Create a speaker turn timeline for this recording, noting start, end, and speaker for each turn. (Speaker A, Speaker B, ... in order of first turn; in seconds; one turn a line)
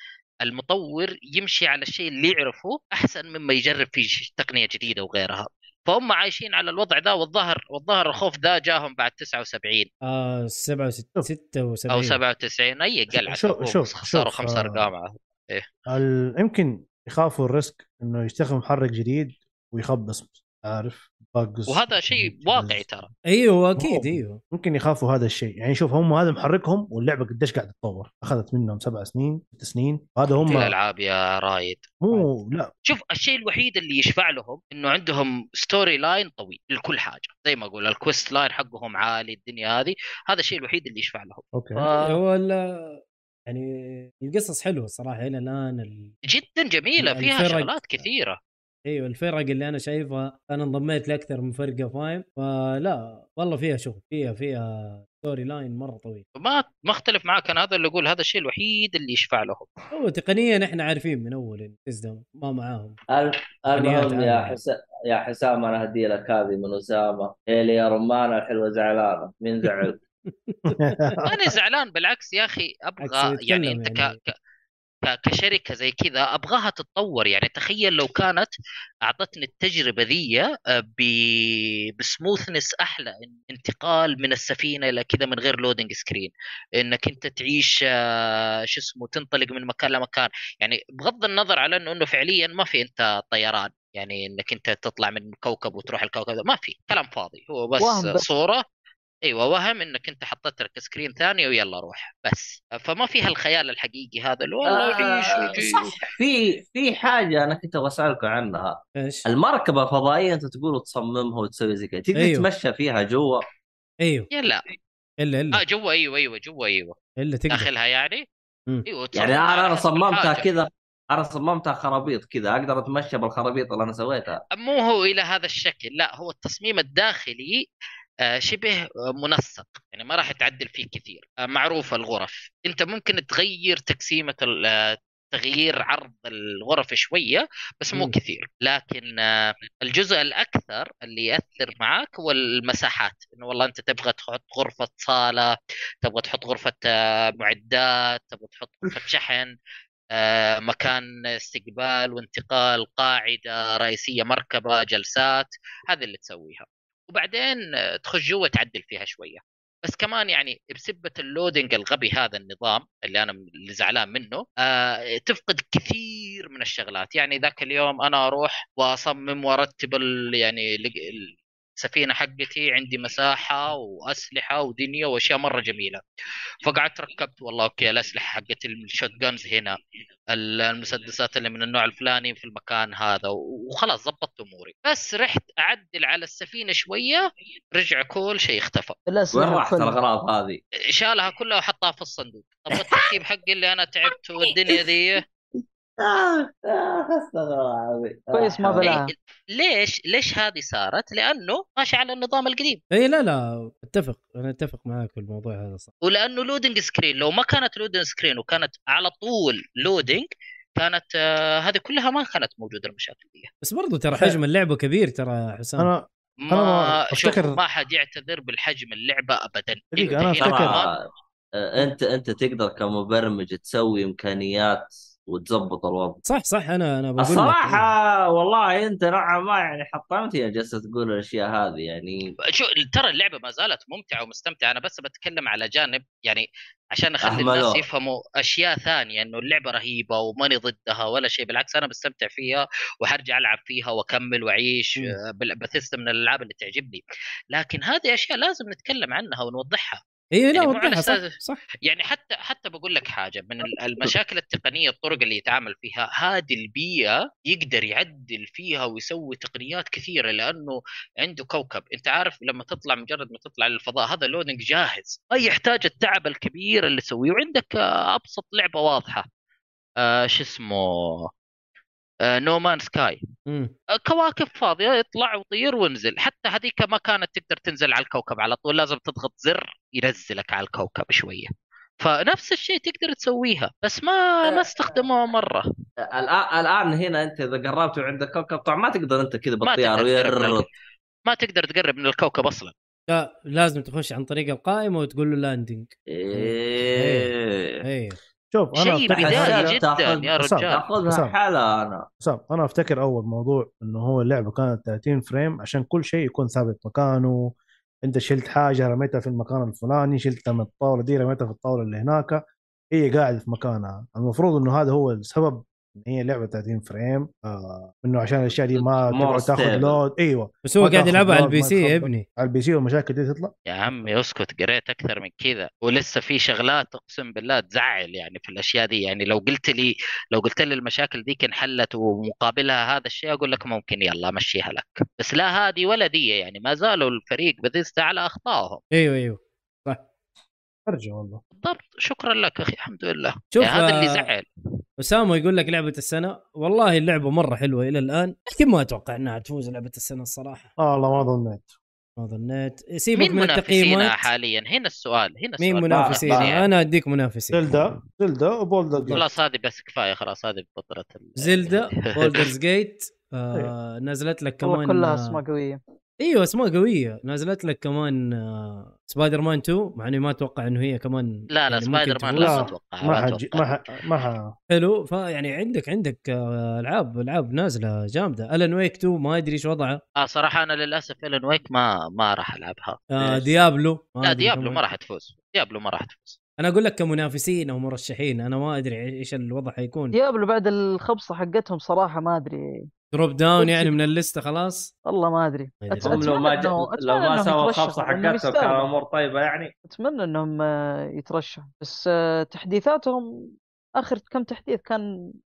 Speaker A: 0.4-9.9
Speaker B: 10.1-12.2
Speaker A: 11.9-15.7
Speaker C: 13.1-14.9
Speaker C: 15.9-22.8
Speaker A: 21.7-23.1
Speaker B: 23.3-24.4
Speaker C: 23.8-30.7
Speaker A: 30.4-31.9
Speaker C: 32.0-32.7
Speaker A: 32.9-42.2
Speaker C: 41.5-41.8
Speaker B: 42.0-46.1
Speaker A: 46.3-48.4
Speaker B: 47.0-47.8
Speaker B: 48.9-56.2
Speaker A: 56.4-59.7
Speaker B: 59.9-63.0
Speaker D: 63.1-70.0
Speaker B: 63.7-64.6
Speaker B: 69.8-71.2
Speaker C: 70.7-71.5
Speaker A: 71.3-74.3
Speaker B: 73.0-74.2
Speaker A: 75.0-78.5
Speaker A: 79.0-98.6
Speaker E: 97.8-98.2
Speaker A: 99.2-106.0
Speaker D: 104.7-113.5
Speaker B: 109.0-109.2
Speaker B: 112.2-112.5
Speaker B: 114.0-114.3
Speaker A: 114.3-114.6
Speaker B: 115.2-115.6
Speaker A: 115.5-117.0
Speaker B: 117.2-117.7
Speaker A: 117.5-118.3
Speaker A: 118.9-120.5
Speaker D: 119.1-124.4
Speaker A: 124.5-127.6
Speaker A: 128.3-149.5
Speaker A: 150.1-176.0
Speaker A: 176.6-179.8
Speaker A: 180.3-187.2
Speaker A: 187.8-189.0
Speaker E: 189.1-190.0
Speaker D: 189.3-190.6
Speaker A: 190.9-195.2
Speaker D: 192.7-193.1
Speaker D: 194.4-194.8
Speaker D: 196.0-199.0
Speaker E: 198.3-199.1
Speaker A: 198.8-202.8
Speaker B: 202.9-205.9
Speaker A: 206.0-213.5
Speaker B: 213.6-215.9
Speaker C: 215.8-217.6
Speaker A: 216.5-220.9
Speaker C: 219.9-220.8
Speaker D: 220.4-226.2
Speaker B: 226.2-227.9
Speaker D: 227.2-232.3
Speaker A: 232.5-247.0
Speaker D: 237.2-237.8
Speaker A: 247.5-250.0
Speaker B: 250.3-251.6
Speaker A: 250.5-251.3
Speaker A: 251.8-269.3
Speaker A: 270.0-271.3
Speaker A: 272.3-273.2
Speaker B: 273.5-273.7
Speaker A: 274.0-281.5
Speaker A: 282.0-285.7
Speaker D: 284.4-285.0
Speaker D: 286.0-290.7
Speaker A: 289.6-290.7
Speaker A: 291.3-292.7
Speaker B: 293.1-297.3
Speaker D: 296.1-297.8
Speaker B: 297.8-298.2
Speaker C: 298.5-299.8
Speaker A: 298.8-300.8
Speaker D: 299.1-302.1
Speaker C: 300.4-301.3
Speaker C: 302.2-323.5
Speaker D: 318.7-320.0
Speaker B: 320.6-322.2
Speaker A: 323.7-338.8
Speaker B: 338.9-340.0
Speaker C: 340.9-341.4
Speaker A: 341.6-344.5
Speaker B: 343.5-344.2
Speaker B: 345.0-350.7
Speaker C: 350.8-351.7
Speaker B: 352.2-354.3
Speaker A: 353.2-356.7
Speaker B: 355.6-357.7
Speaker D: 355.9-356.6
Speaker C: 357.5-359.2
Speaker B: 359.0-359.3
Speaker A: 359.1-362.5
Speaker B: 361.4-365.4
Speaker E: 364.6-365.8
Speaker B: 366.2-372.6
Speaker A: 371.5-373.6
Speaker C: 372.4-374.6
Speaker B: 374.7-380.0
Speaker A: 380.2-383.0
Speaker B: 383.1-384.8
Speaker D: 383.2-383.5
Speaker A: 384.2-386.4
Speaker B: 386.6-390.1
Speaker E: 390.1-392.9
Speaker B: 393.1-394.9
Speaker E: 393.6-393.9
Speaker E: 395.1-398.9
Speaker B: 395.8-396.3
Speaker D: 396.0-399.7
Speaker E: 399.9-403.3
Speaker E: 404.0-405.0